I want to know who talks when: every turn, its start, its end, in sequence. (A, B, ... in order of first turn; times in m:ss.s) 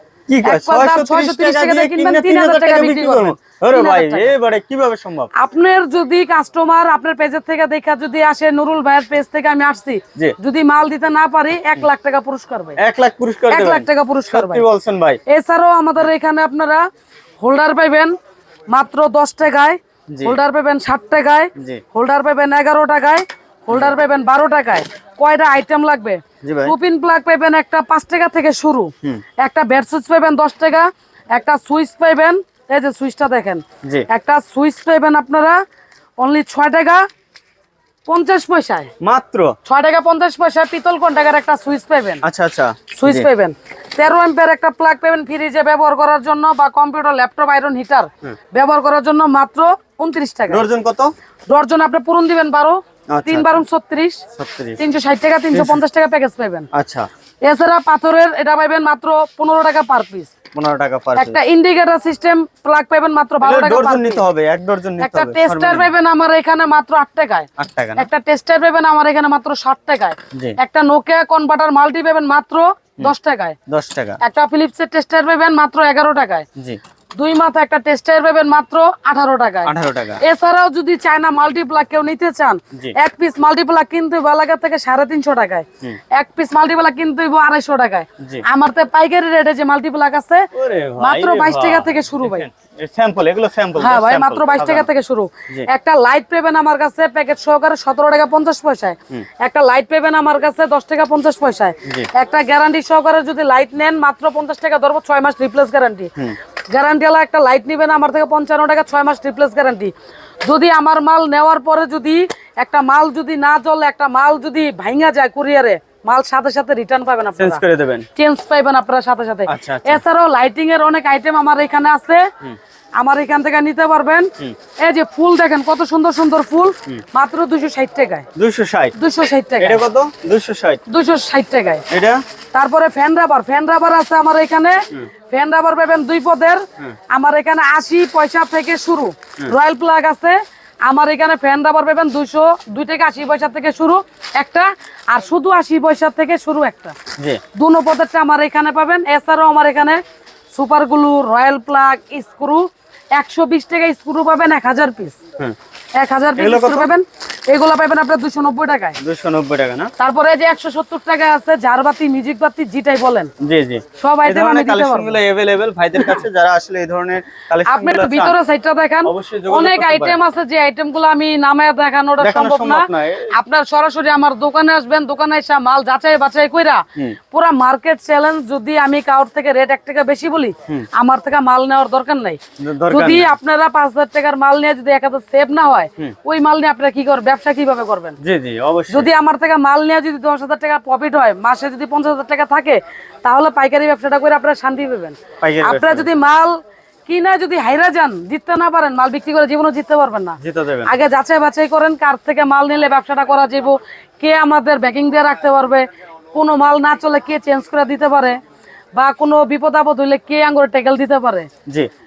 0:00.3-0:05.3 A
0:00.4-0:04.3 B
0:05.4-0:12.8 B
0:12.8-0:15.2 A
0:13.5-0:14.6 B
0:15.3-0:16.9 B
0:17.4-0:18.2 B
0:18.7-0:35.6 B
0:20.1-0:20.4 A
0:21.6-0:21.8 A
0:26.4-0:26.8 A
0:36.2-0:37.1 B
0:38.1-0:38.9 B
0:39.0-0:39.6 A
0:39.7-0:42.2 B
0:42.2-0:43.3 A
0:42.9-0:50.7 B
0:50.5-0:51.1 A
0:51.5-0:54.3 B
0:53.1-0:53.5 A
0:54.3-0:54.8 A
0:54.8-0:56.7 B
0:55.5-0:55.8 A
0:56.7-0:57.1 A
0:57.4-1:00.3 B
1:00.5-1:01.4 A
1:01.2-1:04.2 B
1:03.4-1:05.9 A
1:05.0-1:13.6 B
1:07.6-1:08.1 A
1:13.7-1:14.2 A
1:14.2-1:16.5 B
1:17.2-1:32.5 B
1:19.7-1:20.2 A
1:30.5-1:34.9 A
1:33.8-1:46.2 B
1:46.7-1:49.9 B
1:50.4-1:57.6 B
1:57.4-1:58.1 A
1:58.2-2:02.3 B
1:59.5-2:00.0 A
2:03.0-2:08.3 B
2:08.4-2:09.0 A
2:09.0-2:09.8 B
2:09.6-2:10.8 A
2:10.9-2:11.8 B
2:11.9-2:12.2 A
2:12.5-2:27.0 B
2:27.5-2:30.0 B
2:30.5-2:35.2 B
2:36.0-2:39.0 B
2:36.4-2:36.9 A
2:39.0-2:39.9 A
2:40.0-2:43.3 B
2:43.4-2:48.4 A
2:44.0-2:45.2 B
2:47.7-3:08.2 B
2:49.0-2:50.2 A
2:52.2-2:53.4 A
3:02.6-3:03.4 A
3:08.2-3:09.1 A
3:08.9-3:28.4 B
3:15.4-3:16.1 A
3:20.4-3:20.9 A
3:29.0-3:31.5 B